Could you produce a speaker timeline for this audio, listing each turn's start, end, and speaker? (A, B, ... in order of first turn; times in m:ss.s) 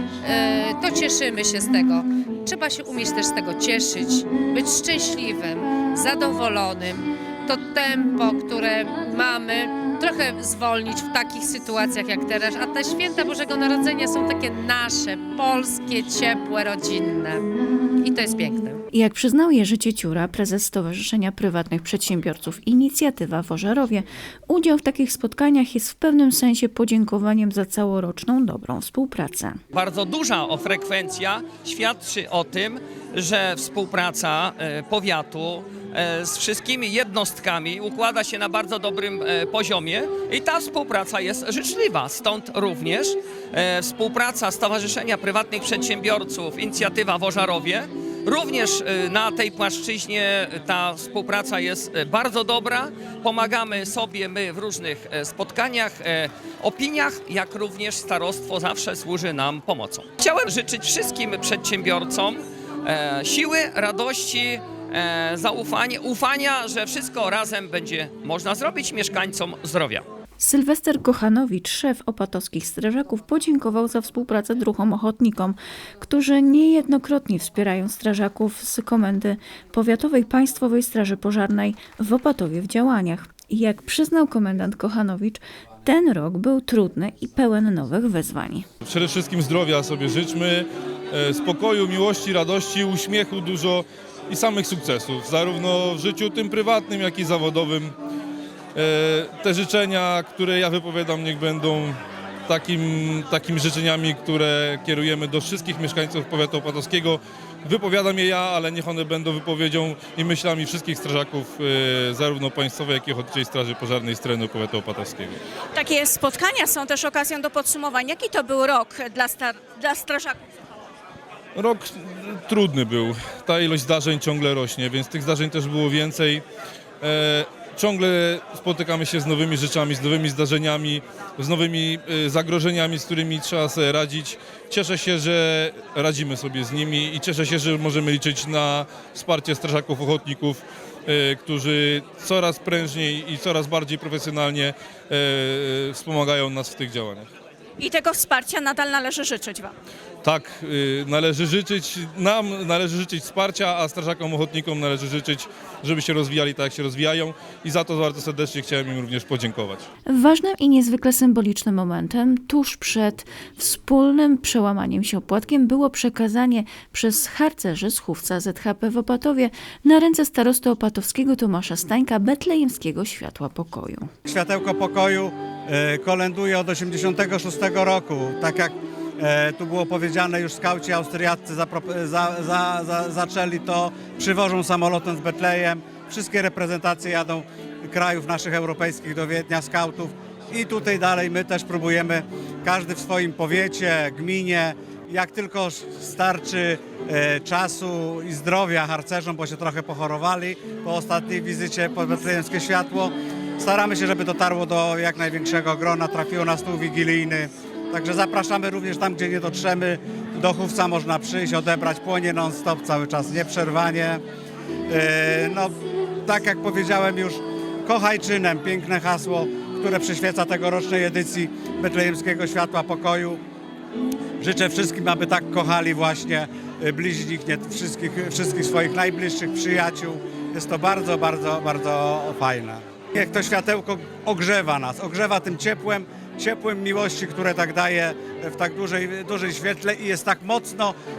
0:00.2-0:17.4 A
0:18.0-0:18.8 A
0:18.9-0:29.6 B
0:29.7-1:10.0 C
1:10.4-1:28.6 B
1:28.8-1:38.0 D
1:38.7-1:55.4 D
1:55.7-2:00.4 E
2:01.6-2:06.4 D
2:07.0-2:27.3 D
2:27.8-2:29.7 E
2:30.2-2:39.9 D
2:40.1-2:54.1 B
2:54.2-3:34.2 F
3:34.9-3:43.4 F
3:44.4-4:00.9 F